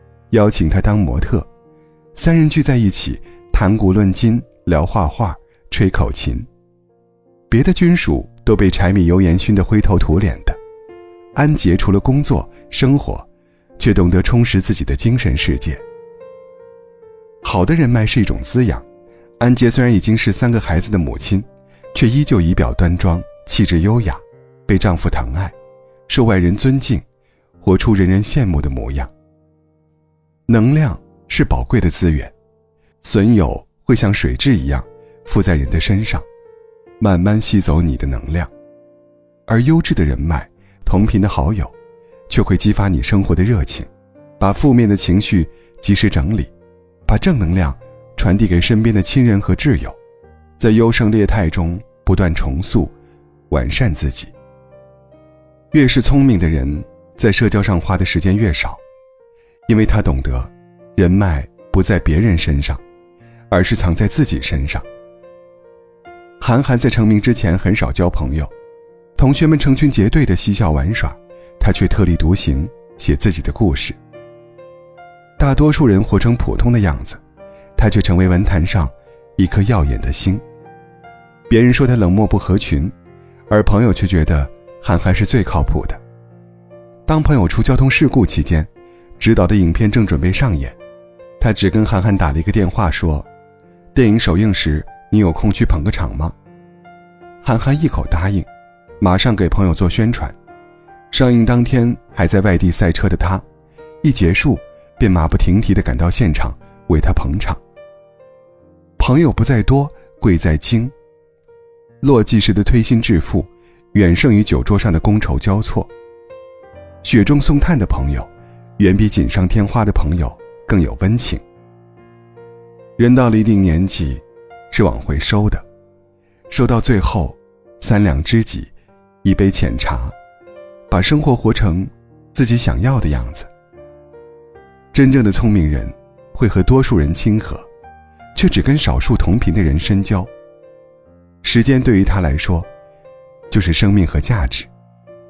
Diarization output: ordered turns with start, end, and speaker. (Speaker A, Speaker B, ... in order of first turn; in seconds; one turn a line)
Speaker A: 0.3-1.5
Speaker A: 2.1-6.5
Speaker A: 7.5-10.6
Speaker A: 11.3-13.3
Speaker A: 13.8-15.8
Speaker A: 17.4-18.8
Speaker A: 19.4-25.5
Speaker A: 26.1-27.0
Speaker A: 27.6-29.1
Speaker A: 30.5-32.3
Speaker A: 33.0-36.2
Speaker A: 37.0-38.5
Speaker A: 39.5-41.7
Speaker A: 42.3-46.5
Speaker A: 47.0-50.0
Speaker A: 50.6-52.9
Speaker A: 53.5-54.3
Speaker A: 55.7-58.8
Speaker A: 59.7-62.8
Speaker A: 63.5-64.8
Speaker A: 66.4-68.5
Speaker A: 69.2-74.0
Speaker A: 75.4-77.2
Speaker A: 77.8-80.4
Speaker A: 81.5-82.9
Speaker A: 83.5-86.0
Speaker A: 87.0-90.8
Speaker A: 91.4-93.3
Speaker A: 93.9-96.3
Speaker A: 97.4-98.5
Speaker A: 99.0-100.3
Speaker A: 101.1-103.4
Speaker A: 104.0-107.6
Speaker A: 109.0-110.9
Speaker A: 112.0-115.9
Speaker A: 117.0-121.4
Speaker A: 123.0-125.6
Speaker A: 126.5-130.1
Speaker A: 130.9-133.5
Speaker A: 134.9-137.7
Speaker A: 138.3-140.3
Speaker A: 141.4-142.7
Speaker A: 143.5-144.7